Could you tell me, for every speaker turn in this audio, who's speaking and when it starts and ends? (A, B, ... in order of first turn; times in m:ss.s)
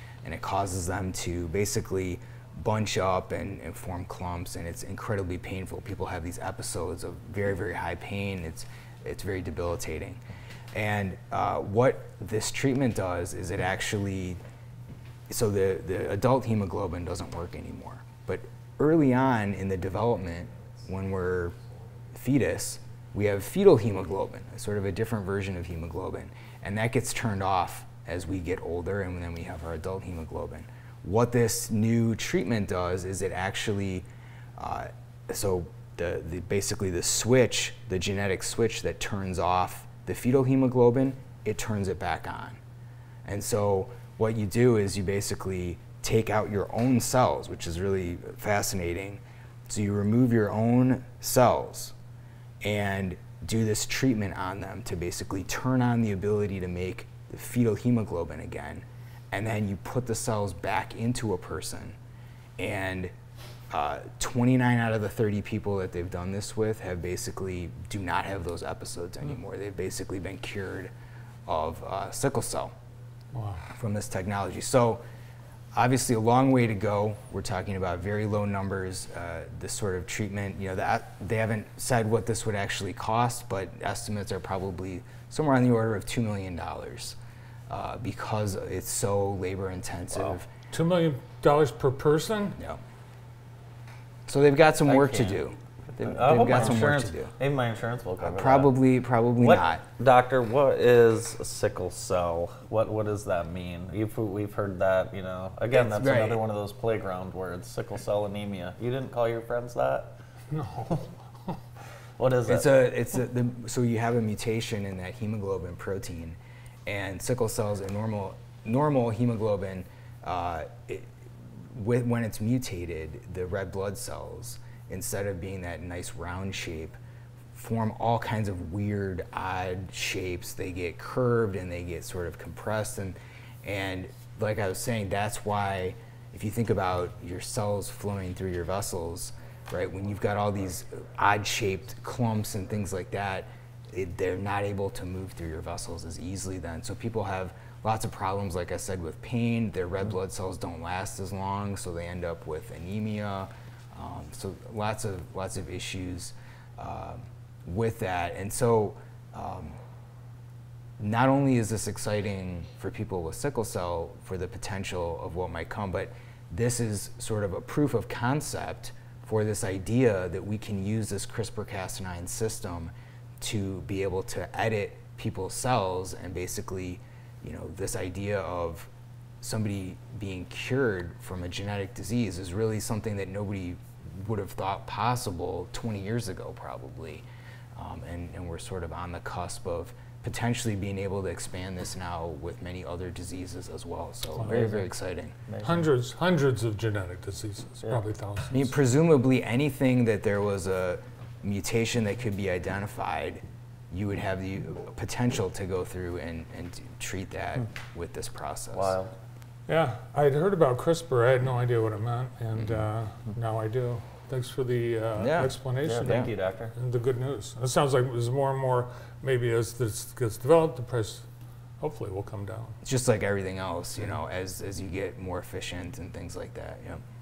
0:00.2-0:10.2 A
0:10.7-0:14.4 A
0:15.3-0:21.5 A
0:22.1-0:34.1 A
0:34.6-0:42.6 A
0:43.2-0:51.9 A
0:52.6-1:02.0 A
1:02.6-1:03.1 A
1:03.7-1:10.9 A
1:11.4-1:12.7 A
1:13.3-1:13.6 B
1:13.7-1:15.0 A
1:15.8-1:27.2 A
1:27.7-1:30.5 A
1:30.7-1:32.6 B
1:34.3-1:37.3 A
1:34.8-1:35.4 C
1:36.1-1:38.7 C
1:38.2-1:39.8 A
1:39.4-1:50.2 C
1:45.7-1:46.4 A
1:50.5-1:51.6 B
1:52.2-1:52.7 C
1:52.5-2:01.1 A
2:01.7-2:07.0 A
2:07.5-2:39.8 A
2:41.0-2:58.9 A
2:59.4-3:07.2 A
3:07.8-3:15.4 A
3:14.4-3:14.9 B
3:15.5-3:15.9 C
3:15.6-3:18.7 B
3:18.5-3:29.0 A
3:28.7-3:29.1 C
3:29.7-3:41.3 B
3:35.2-3:36.3 A
3:35.8-3:36.7 C
3:41.8-3:42.8 B
3:42.8-3:47.0 A